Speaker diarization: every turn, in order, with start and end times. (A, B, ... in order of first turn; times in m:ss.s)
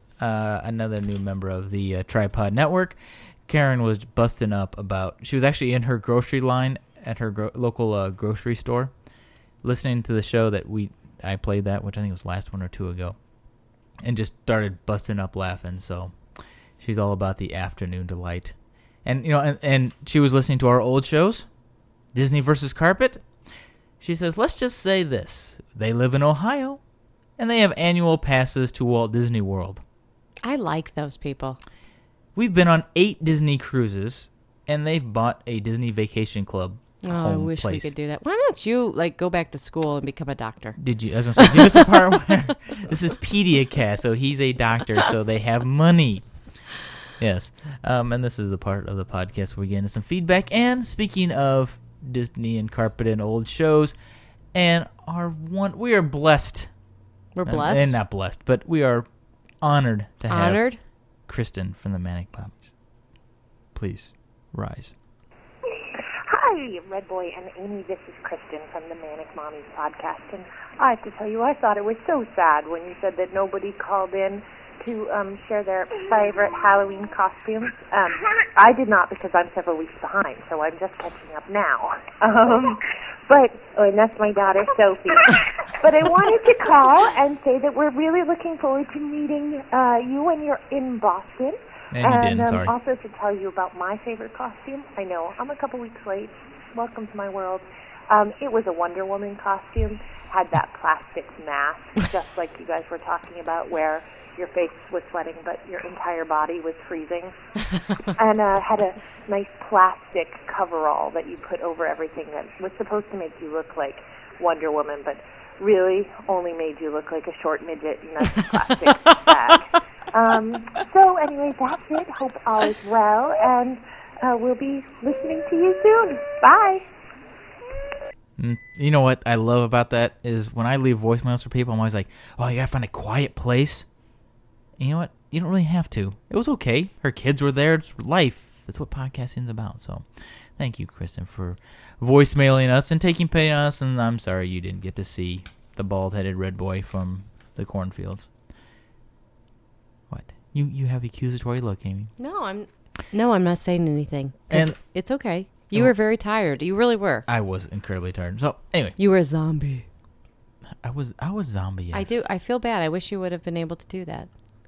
0:00.2-0:08.9 A
0:09.6-0:13.2 A
0:14.0-0:16.1 A
0:16.8-0:18.5 A
0:19.0-0:21.5 A
0:22.1-0:23.2 A
0:24.0-0:26.8 A
0:27.4-0:29.8 A
0:30.4-0:31.6 B
0:32.3-0:37.9 A
0:37.0-0:40.8 B
0:40.8-0:46.2 A
0:41.4-0:42.3 B
0:47.2-0:54.0 A
0:54.5-0:56.7 A
0:57.4-0:58.0 B
0:57.4-0:59.1 A
0:59.6-1:00.7 A
1:00.3-1:00.8 B
1:01.3-1:02.7 A
1:03.7-1:04.9 A
1:06.0-1:47.4 C
1:31.9-1:32.7 A
1:48.2-2:06.8 C
2:08.4-2:13.8 A
2:14.8-2:28.3 A
2:30.1-2:32.1 A
2:32.2-2:37.2 B
2:34.5-2:34.8 A
2:37.3-2:38.9 A
2:39.0-2:39.8 B
2:40.8-2:42.1 A
2:41.9-2:44.3 B